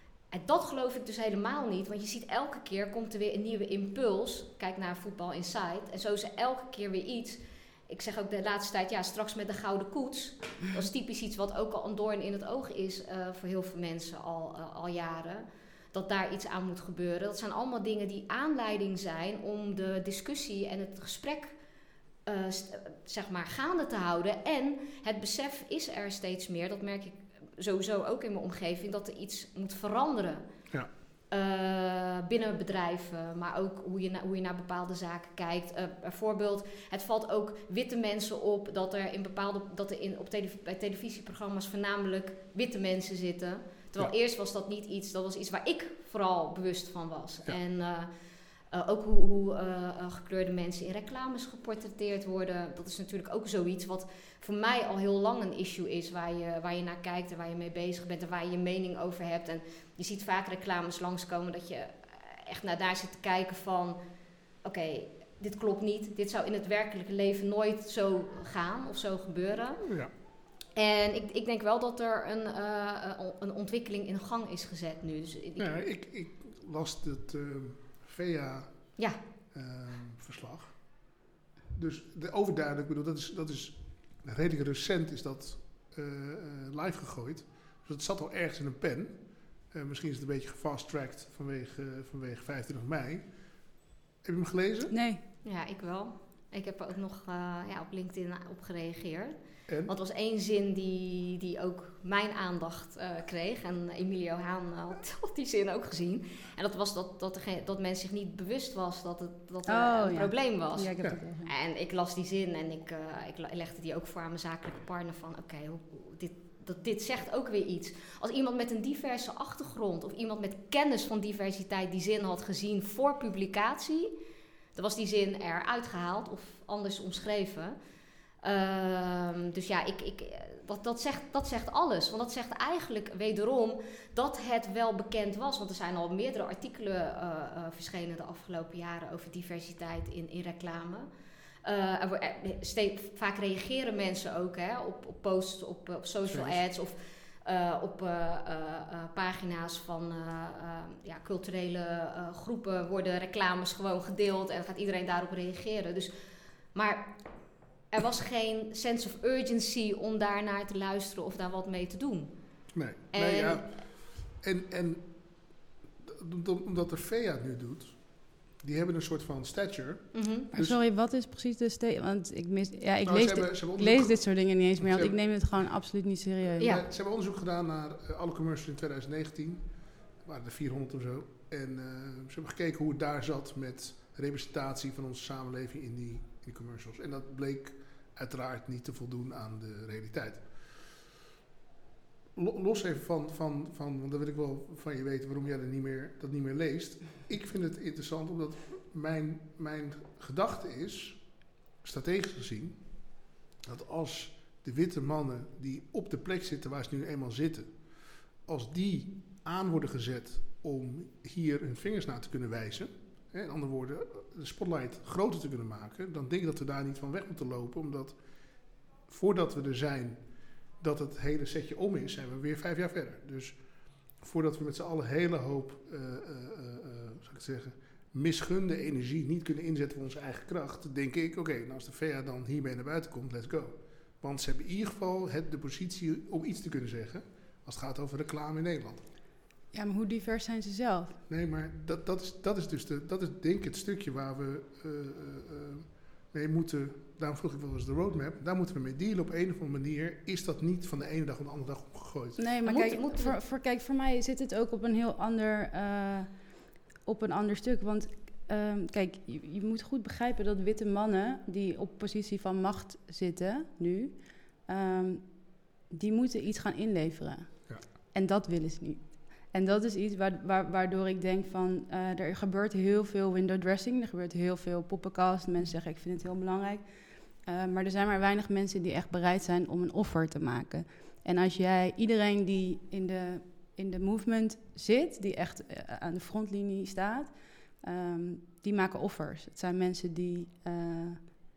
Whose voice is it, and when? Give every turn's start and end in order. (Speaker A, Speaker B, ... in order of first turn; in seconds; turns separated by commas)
Speaker A: 0.3-21.5, Speaker A: 22.3-30.4, Speaker A: 31.3-48.1, Speaker A: 48.7-64.0, Speaker A: 64.6-70.0, Speaker B: 69.9-70.1, Speaker A: 70.8-75.7, Speaker B: 75.6-78.8, Speaker B: 79.5-80.8, Speaker B: 81.7-93.4, Speaker B: 94.2-95.0, Speaker C: 94.9-95.2, Speaker A: 95.5-124.1, Speaker B: 99.7-99.9, Speaker C: 109.7-111.5, Speaker A: 124.8-127.8, Speaker A: 128.4-141.1, Speaker A: 141.6-156.1, Speaker B: 146.3-146.6, Speaker A: 156.8-157.2, Speaker A: 157.9-162.3, Speaker B: 162.7-165.4, Speaker A: 163.1-163.7, Speaker B: 166.0-170.8, Speaker A: 170.1-170.5, Speaker C: 170.5-176.7, Speaker B: 173.0-175.2, Speaker B: 176.5-179.7, Speaker B: 180.2-190.9, Speaker B: 192.4-207.9, Speaker B: 208.4-218.2, Speaker B: 219.1-220.2, Speaker B: 220.8-223.6, Speaker B: 224.2-239.1, Speaker C: 239.7-241.2, Speaker B: 241.3-252.4, Speaker C: 252.4-256.3, Speaker A: 252.7-253.4, Speaker C: 257.1-264.1, Speaker C: 264.7-265.2, Speaker C: 265.9-276.8, Speaker C: 277.4-291.2